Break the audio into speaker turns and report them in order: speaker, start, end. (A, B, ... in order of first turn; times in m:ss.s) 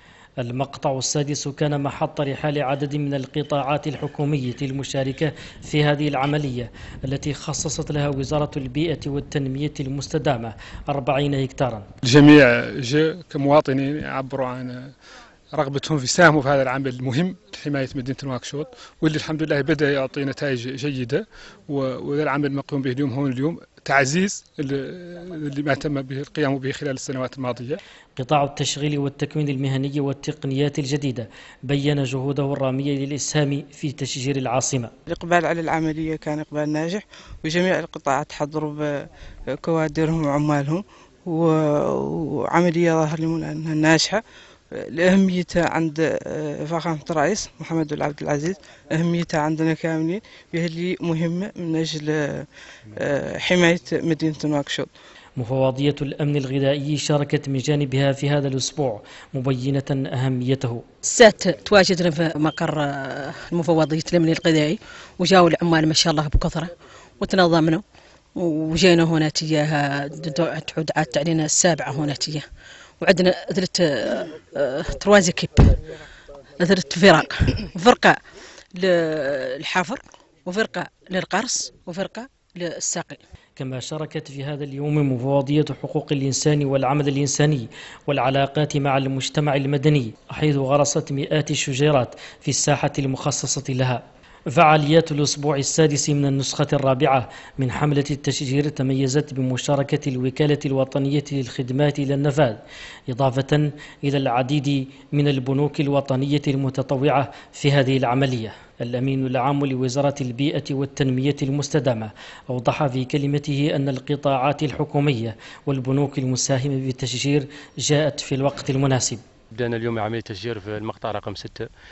0:00.4-0:11.9 A
0:12.0-0:14.9 B
0:15.5-0:27.8 B
0:28.2-0:34.9 A
0:35.1-0:39.0 C
0:39.6-0:44.2 C
0:44.8-0:54.9 C
0:55.4-1:00.8 A
1:01.0-1:07.8 D
1:08.4-1:12.4 D
1:13.0-1:15.8 D
1:16.6-1:18.2 D
1:18.8-1:23.2 D
1:23.6-1:34.0 A
1:34.5-1:59.2 A
1:59.5-2:01.7 E